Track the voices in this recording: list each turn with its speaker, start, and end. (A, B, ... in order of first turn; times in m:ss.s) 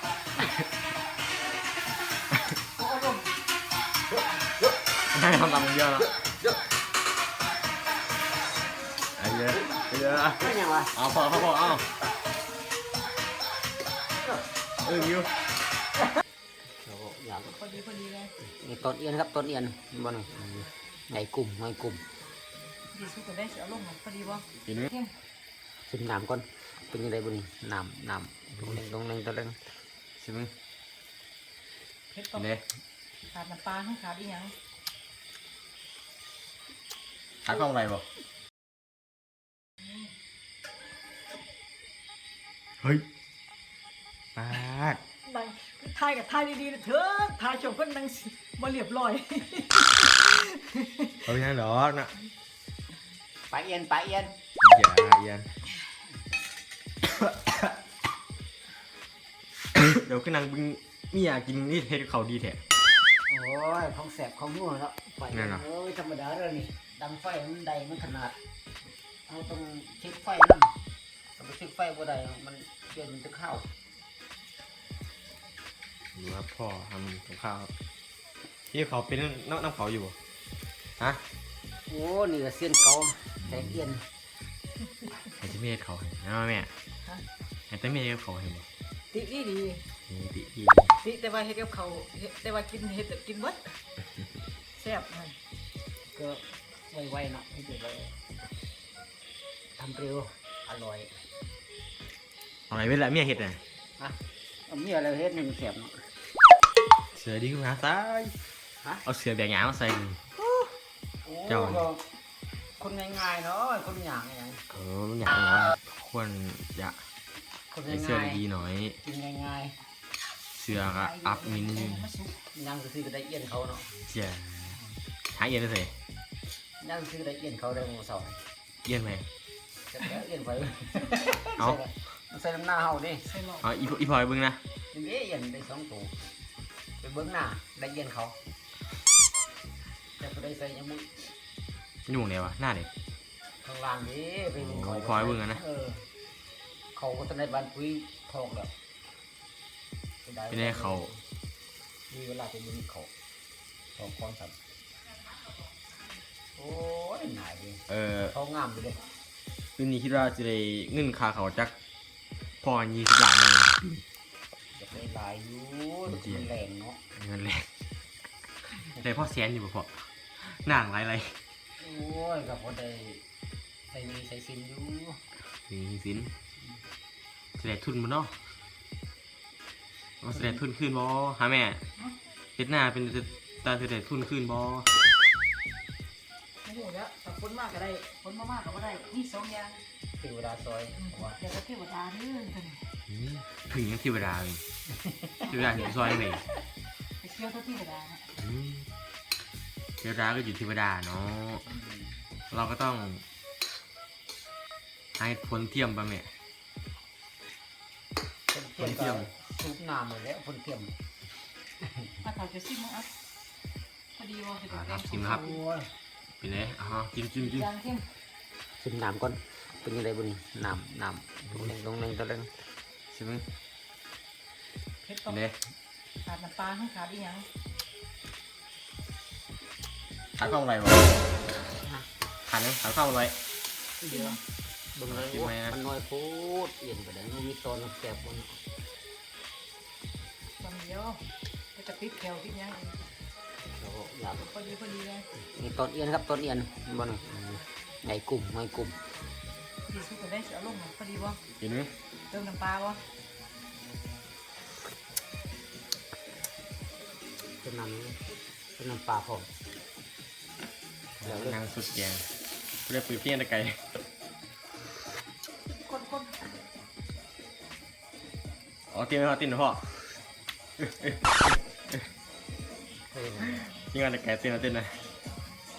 0:00.4-0:00.6 A
0:02.8-0:03.2 B
0:05.1-0:06.2 A
0:09.2-0:11.9 A
0:10.4-0:10.9 C
0:14.8-0:15.3 A
0:16.6-0:17.6 C
0:17.4-0:18.4 B
0:18.4-0:22.0 C
0:22.9-0:25.1 B
0:24.6-0:24.9 A
0:25.9-0:29.6 C
0:30.2-0:30.5 A
0:32.1-0:32.5 B
0:32.4-0:32.6 A
0:33.3-0:34.5 B
0:37.4-0:38.1 A
0:44.4-0:45.0 A
0:45.3-0:51.2 B
0:51.2-0:52.1 A
0:53.5-0:54.4 C
0:54.6-0:55.5 A
0:57.0-0:57.7 A
0:59.8-1:02.6 A
1:03.3-1:08.4 C
1:05.3-1:05.6 A
1:09.3-1:10.7 C
1:11.4-1:13.7 C
1:16.1-1:17.7 A
1:18.7-1:20.2 A
1:21.9-1:24.0 C
1:25.4-1:26.7 A
1:27.7-1:28.6 A
1:29.1-1:29.8 B
1:30.1-1:30.9 A
1:31.0-1:33.8 B
1:34.8-1:35.4 B
1:36.1-1:38.1 C
1:39.8-1:41.2 C
1:42.7-1:43.6 A
1:44.0-1:46.1 C
1:47.1-1:48.4 A
1:49.0-1:50.2 A
1:51.2-1:52.0 C
1:51.5-1:51.9 A
1:52.8-1:54.6 C
1:54.7-1:57.0 A
1:57.7-1:58.4 C
1:57.9-1:59.0 A
1:59.0-1:59.8 C
2:00.5-2:02.1 A
2:00.9-2:02.4 B
2:02.5-2:03.9 C
2:04.1-2:05.9 A
2:06.8-2:08.4 C
2:08.8-2:09.2 A
2:09.9-2:13.3 C
2:13.2-2:13.6 B
2:13.6-2:14.6 A
2:14.9-2:16.2 C
2:17.0-2:18.4 C
2:20.2-2:21.3 C
2:22.1-2:22.9 A
2:23.6-2:26.1 C
2:24.6-2:25.6 A
2:26.9-2:28.7 C
2:30.2-2:31.2 C
2:30.5-2:31.1 A
2:32.1-2:33.1 C
2:34.0-2:34.6 C
2:36.6-2:39.0 C
2:37.9-2:38.3 A
2:39.8-2:41.7 A
2:42.6-2:44.0 A
2:44.7-2:47.0 C
2:46.1-2:46.5 A
2:47.2-2:47.7 A
2:48.7-2:51.4 A
2:51.8-2:53.2 C
2:53.9-2:55.2 C
2:55.7-2:56.3 A
2:57.6-2:58.3 A
3:00.2-3:01.8 A
3:02.6-3:04.9 A
3:06.6-3:09.8 B
3:10.2-3:11.4 C
3:11.0-3:12.9 B
3:13.1-3:14.6 A
3:15.5-3:16.4 A
3:15.7-3:16.2 B
3:17.2-3:18.3 B
3:18.4-3:18.9 A
3:20.0-3:21.7 A
3:21.7-3:22.2 C
3:22.5-3:23.2 A
3:25.2-3:26.3 A
3:28.5-3:30.9 C
3:28.8-3:29.3 A
3:32.2-3:33.1 B
3:34.2-3:35.5 B
3:34.7-3:35.6 A
3:35.3-3:35.9 C
3:36.4-3:37.7 A
3:37.4-3:38.1 B
3:38.8-3:42.5 C
3:43.1-3:43.4 A
3:45.0-3:45.4 B
3:45.3-3:45.6 A
3:46.2-3:47.5 B
3:50.4-3:51.2 A
3:52.5-3:53.4 A
3:54.0-3:54.4 C
3:54.1-3:54.4 B
3:54.9-3:58.6 C
3:55.1-3:55.8 A
4:00.6-4:01.2 B
4:01.8-4:03.0 B
4:03.7-4:04.5 C
4:04.3-4:05.3 B
4:05.4-4:09.0 C
4:09.9-4:11.4 B
4:11.6-4:11.9 A
4:12.3-4:13.0 B
4:17.6-4:18.2 C
4:18.8-4:19.5 C
4:21.2-4:22.3 A
4:21.2-4:21.6 C
4:22.9-4:24.0 A
4:25.8-4:26.4 B
4:28.9-4:30.0 A
4:30.8-4:32.0 A
4:33.1-4:33.7 C
4:33.6-4:35.0 A